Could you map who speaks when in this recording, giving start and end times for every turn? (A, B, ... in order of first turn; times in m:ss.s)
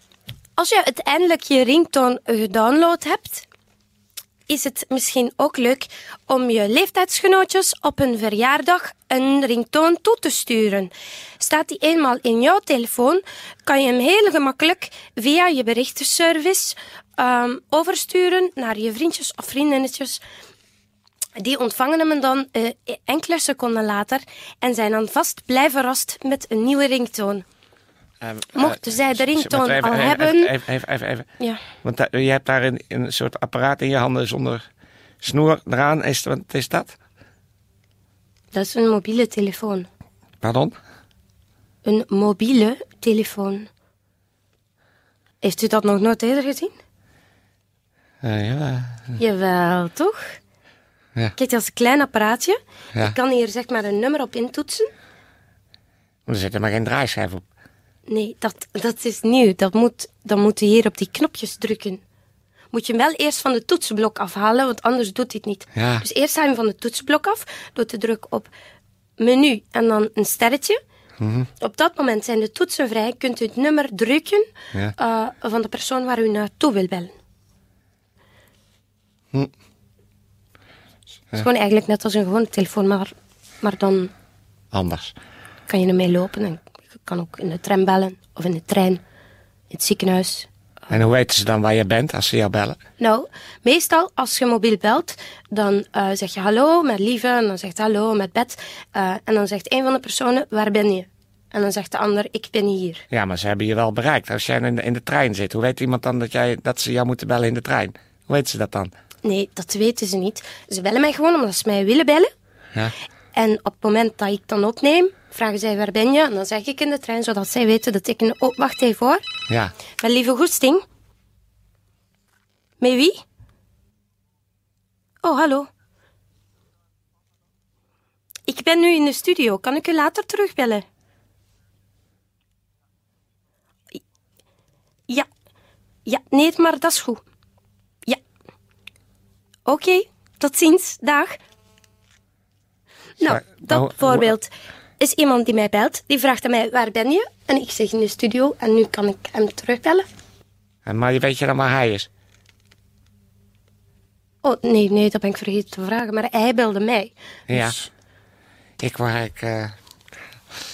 0:00.6-0:03.4 A
0:04.5-0:20.2 A
0:21.4-0:27.4 A
0:28.2-0:31.3 B
0:28.6-0:30.5 A
0:31.8-0:34.6 B
0:35.2-0:37.0 B
0:38.5-0:39.9 A
0:40.4-0:40.8 B
0:41.8-0:43.7 A
0:45.4-0:46.7 A
0:48.2-0:49.2 B
0:49.2-0:50.4 A
0:51.4-0:54.9 A
0:56.3-0:57.4 B
0:58.1-1:02.0 A
1:02.7-1:08.5 A
1:05.7-1:06.0 B
1:09.2-1:10.8 A
1:11.2-1:11.5 B
1:11.6-1:17.1 A
1:21.4-1:24.1 A
1:24.7-1:25.1 B
1:25.7-1:29.0 A
1:29.7-1:30.5 A
1:30.9-1:32.8 B
1:33.0-1:43.0 A
1:43.1-1:48.9 B
1:49.2-1:52.3 A
1:53.3-1:59.2 A
2:00.0-2:00.8 A
2:02.8-2:03.2 A
2:05.2-2:05.7 A
2:08.5-2:10.8 A
2:16.0-2:17.2 A
2:19.6-2:21.4 A
2:23.2-2:30.0 A
2:23.2-2:24.2 B
2:30.8-2:32.1 B
2:34.4-2:37.7 A
2:37.5-2:37.9 B
2:38.8-2:39.7 B